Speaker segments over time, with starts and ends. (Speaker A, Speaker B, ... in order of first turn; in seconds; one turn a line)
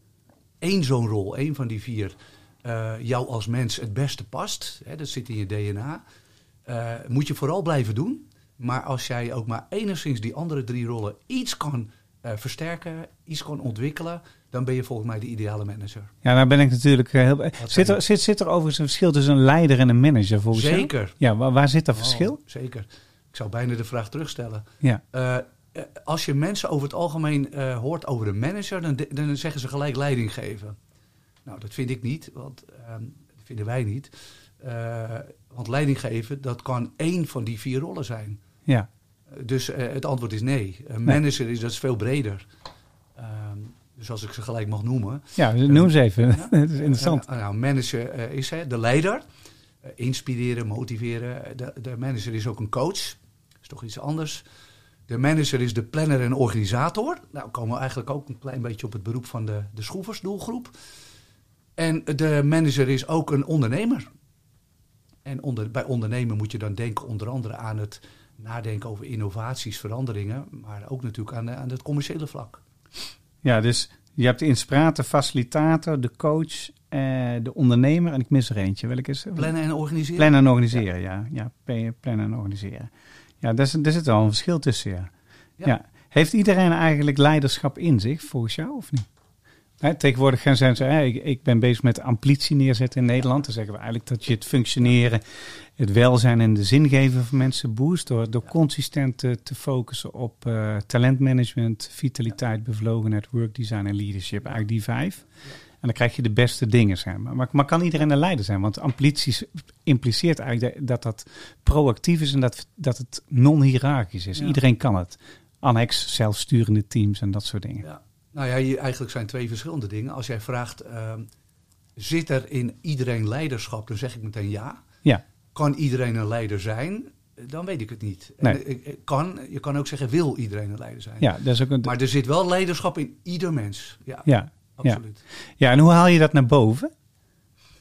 Speaker A: 0.6-6.0
Speaker A: 6.7-16.1
Speaker B: 16.2-22.4
Speaker A: 17.6-18.0
Speaker A: 20.5-21.2
Speaker A: 21.9-30.8
Speaker A: 31.4-38.4
Speaker A: 39.3-42.5
Speaker A: 43.1-49.2
Speaker B: 45.4-47.2
Speaker A: 49.8-54.4
Speaker A: 55.1-60.7
Speaker A: 61.8-64.1
Speaker A: 65.2-72.6
Speaker B: 73.4-79.5
Speaker A: 79.3-80.8
Speaker B: 80.2-82.9
Speaker B: 83.4-85.1
Speaker B: 85.6-89.1
Speaker B: 89.8-105.3
Speaker B: 105.8-117.8
Speaker A: 117.8-121.3
Speaker A: 122.0-124.8
Speaker A: 125.5-135.2
Speaker B: 131.2-131.9
Speaker B: 134.2-135.0
Speaker B: 135.6-136.9